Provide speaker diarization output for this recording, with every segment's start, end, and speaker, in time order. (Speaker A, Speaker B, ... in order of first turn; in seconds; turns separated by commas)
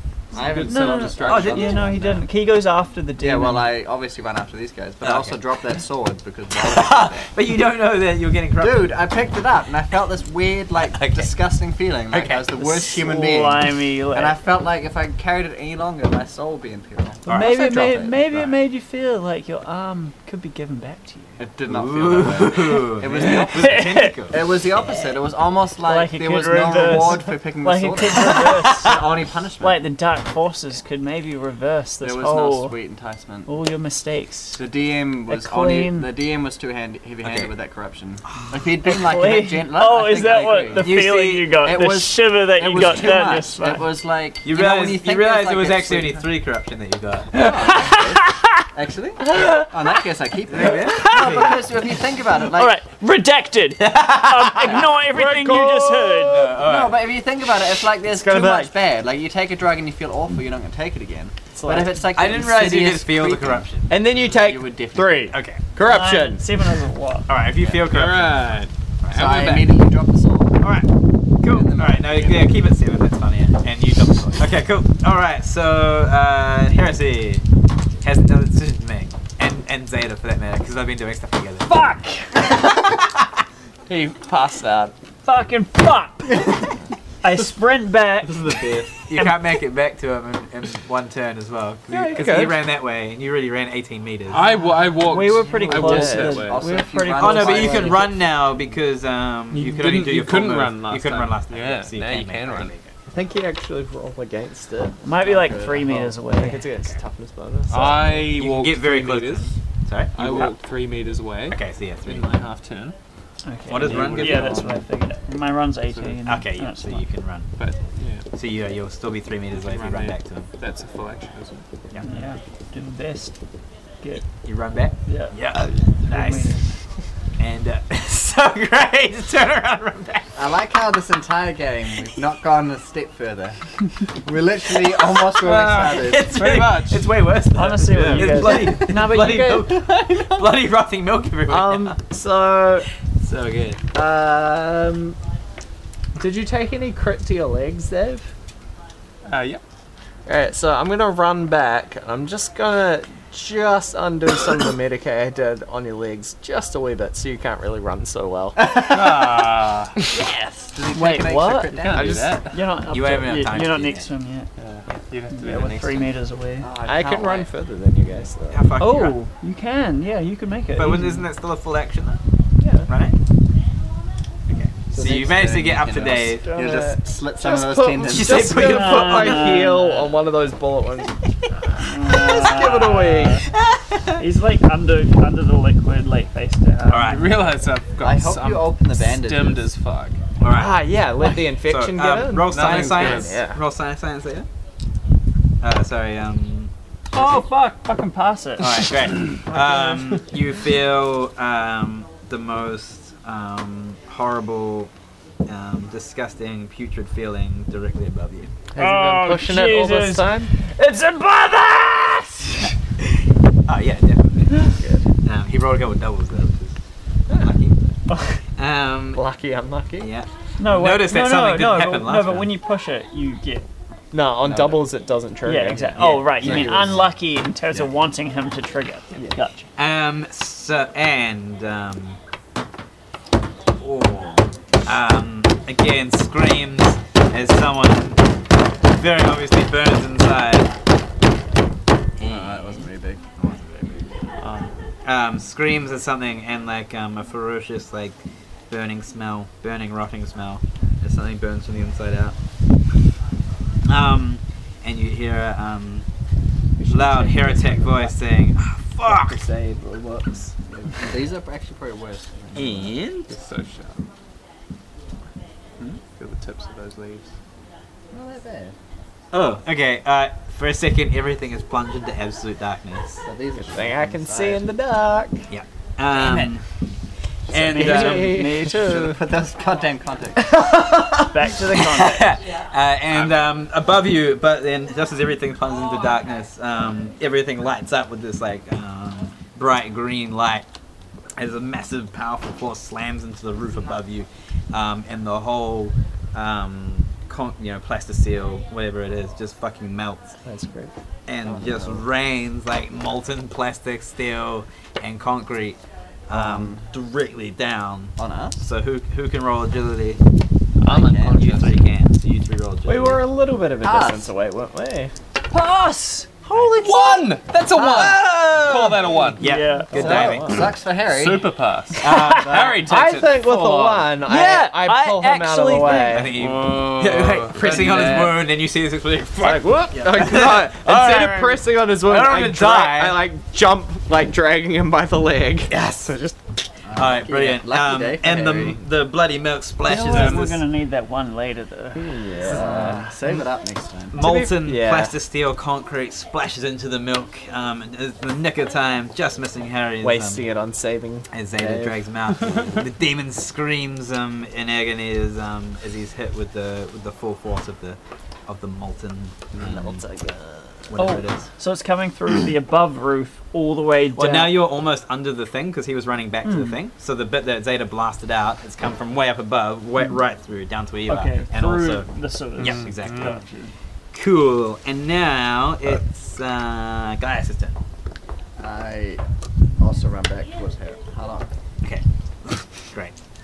Speaker A: 0.3-2.1, Speaker B: 0.3-1.5, Speaker C: 0.5-3.7, Speaker D: 1.2-2.1, Speaker A: 3.2-7.3, Speaker D: 5.0-5.4, Speaker D: 6.5-9.0, Speaker A: 8.6-18.3, Speaker D: 10.8-11.3, Speaker D: 12.1-12.5, Speaker C: 12.6-14.4, Speaker D: 17.2-17.7, Speaker C: 17.2-21.4, Speaker A: 21.4-29.8, Speaker D: 21.7-24.4, Speaker C: 23.1-24.1, Speaker C: 25.8-29.0, Speaker C: 29.6-32.8, Speaker A: 32.0-33.5, Speaker C: 33.5-34.6, Speaker A: 34.5-41.0, Speaker C: 35.3-36.1, Speaker D: 37.2-37.5, Speaker C: 38.8-43.9, Speaker D: 40.7-41.5, Speaker A: 41.6-46.2, Speaker D: 44.4-47.5, Speaker C: 47.3-48.6, Speaker A: 47.3-52.7, Speaker C: 49.2-50.0, Speaker D: 50.5-51.6, Speaker C: 50.6-51.7, Speaker C: 52.5-56.5, Speaker D: 53.8-54.9, Speaker E: 55.1-56.3, Speaker B: 55.5-55.7, Speaker D: 56.2-57.1, Speaker A: 56.6-65.3, Speaker E: 58.0-58.7, Speaker E: 61.5-62.1, Speaker D: 62.1-63.9, Speaker E: 63.9-66.4, Speaker D: 65.3-65.6, Speaker C: 65.8-67.3, Speaker D: 67.3-69.7, Speaker B: 67.8-68.7, Speaker A: 69.1-70.6, Speaker B: 69.3-69.6, Speaker D: 70.6-70.9, Speaker D: 71.4-77.4, Speaker A: 71.5-72.5, Speaker D: 78.0-81.8, Speaker C: 81.6-82.5, Speaker D: 83.0-83.2, Speaker E: 83.9-84.9, Speaker C: 85.2-86.6, Speaker C: 87.2-88.5, Speaker D: 88.6-94.4, Speaker E: 91.9-92.6, Speaker B: 94.3-96.6, Speaker C: 95.0-98.0, Speaker E: 95.7-96.5, Speaker A: 96.2-98.2, Speaker D: 97.1-102.9, Speaker B: 99.5-102.8, Speaker E: 103.1-105.0, Speaker C: 105.0-106.7, Speaker A: 105.2-106.0, Speaker E: 105.8-108.4, Speaker B: 107.7-109.5, Speaker D: 108.3-110.5, Speaker B: 110.1-112.9, Speaker D: 111.5-112.5, Speaker C: 113.4-117.0, Speaker D: 113.7-114.7, Speaker B: 113.7-114.8, Speaker B: 115.9-116.2, Speaker D: 116.2-117.5, Speaker B: 117.5-118.2, Speaker D: 118.3-120.5, Speaker B: 119.6-122.2, Speaker C: 122.0-123.3, Speaker C: 124.0-124.3, Speaker D: 124.4-126.6, Speaker C: 125.0-126.7, Speaker D: 127.4-130.3, Speaker A: 130.3-133.6, Speaker A: 134.2-136.3, Speaker B: 135.4-137.1, Speaker D: 135.9-142.0, Speaker C: 137.5-139.7, Speaker E: 137.9-138.7, Speaker E: 141.5-142.9, Speaker D: 143.2-143.8, Speaker E: 143.9-145.2, Speaker E: 146.2-148.3, Speaker B: 149.2-149.6, Speaker E: 150.2-159.4, Speaker B: 158.7-159.9, Speaker A: 160.1-162.4, Speaker C: 160.9-164.5, Speaker B: 161.8-162.6, Speaker D: 162.9-164.1, Speaker B: 164.6-166.2, Speaker C: 165.3-166.7, Speaker A: 166.6-167.5, Speaker E: 166.8-168.7, Speaker D: 168.5-169.2, Speaker C: 168.8-171.3, Speaker D: 170.7-172.2, Speaker E: 172.6-172.9, Speaker D: 172.8-173.2, Speaker D: 174.5-176.6, Speaker E: 174.9-181.2, Speaker A: 175.8-178.6, Speaker D: 178.0-179.7, Speaker C: 178.5-180.1, Speaker C: 181.7-183.5, Speaker E: 182.0-183.5, Speaker D: 183.5-184.2, Speaker C: 184.2-187.3, Speaker D: 186.9-187.3, Speaker B: 187.0-190.2, Speaker A: 188.0-189.7, Speaker D: 190.4-194.5, Speaker E: 190.5-193.6, Speaker B: 192.4-193.4, Speaker D: 195.6-197.4, Speaker C: 197.1-200.2, Speaker D: 198.6-204.9, Speaker D: 205.4-208.5, Speaker E: 208.7-210.5, Speaker C: 208.8-212.7, Speaker D: 213.7-214.6, Speaker E: 214.8-215.1, Speaker D: 215.2-216.8, Speaker D: 217.3-217.8, Speaker D: 218.6-219.2, Speaker E: 219.1-220.1, Speaker D: 220.0-222.5, Speaker C: 220.6-223.7, Speaker E: 224.1-226.6, Speaker A: 224.4-224.8, Speaker C: 225.4-229.7, Speaker D: 225.9-227.0, Speaker A: 226.4-227.0, Speaker D: 229.8-232.2, Speaker D: 233.8-238.2, Speaker D: 238.9-240.7, Speaker D: 242.2-242.8, Speaker A: 242.2-243.2, Speaker D: 243.4-244.1, Speaker D: 245.0-248.2, Speaker D: 248.7-252.3, Speaker D: 253.8-256.1, Speaker E: 256.8-258.1, Speaker D: 256.9-259.4, Speaker E: 259.1-260.5, Speaker A: 260.7-262.9, Speaker D: 262.5-263.3, Speaker B: 263.3-264.1, Speaker B: 266.2-267.3, Speaker A: 268.1-268.7, Speaker D: 269.3-273.2, Speaker A: 273.2-274.6, Speaker E: 273.6-275.4, Speaker D: 275.5-276.6, Speaker A: 276.1-276.5, Speaker D: 277.5-278.5, Speaker C: 277.5-279.1, Speaker E: 277.5-279.1, Speaker A: 278.8-280.5, Speaker D: 280.5-290.6, Speaker C: 281.1-282.4, Speaker D: 291.4-300.4, Speaker E: 300.4-300.9, Speaker D: 301.3-310.2, Speaker A: 301.4-302.0, Speaker A: 306.3-306.8, Speaker A: 308.2-308.6, Speaker B: 310.8-311.7, Speaker E: 310.9-311.6, Speaker D: 310.9-313.2, Speaker E: 312.9-315.1, Speaker A: 313.8-314.3, Speaker C: 315.5-316.4, Speaker D: 316.5-320.6, Speaker B: 316.6-319.5, Speaker C: 319.4-320.2, Speaker E: 319.9-320.7, Speaker A: 319.9-321.6, Speaker B: 321.0-324.1, Speaker D: 321.9-322.8, Speaker C: 322.0-322.4, Speaker E: 322.5-326.4, Speaker C: 324.2-326.3, Speaker D: 326.1-331.5, Speaker B: 326.3-328.4, Speaker E: 327.5-328.4, Speaker E: 329.4-336.4, Speaker D: 332.0-333.2, Speaker D: 335.7-336.1, Speaker A: 336.8-338.8, Speaker D: 336.9-340.6, Speaker C: 339.8-343.1, Speaker E: 341.9-343.0, Speaker A: 342.5-344.2, Speaker D: 344.1-350.4, Speaker E: 344.2-345.1, Speaker E: 350.0-352.0, Speaker D: 351.3-360.0, Speaker E: 359.5-361.0, Speaker D: 360.9-361.4, Speaker C: 360.9-364.6, Speaker D: 364.1-373.4, Speaker C: 366.4-366.8, Speaker C: 371.1-373.7, Speaker B: 372.6-373.4, Speaker D: 374.1-377.8, Speaker A: 378.6-379.2, Speaker A: 379.8-381.5, Speaker D: 381.8-383.1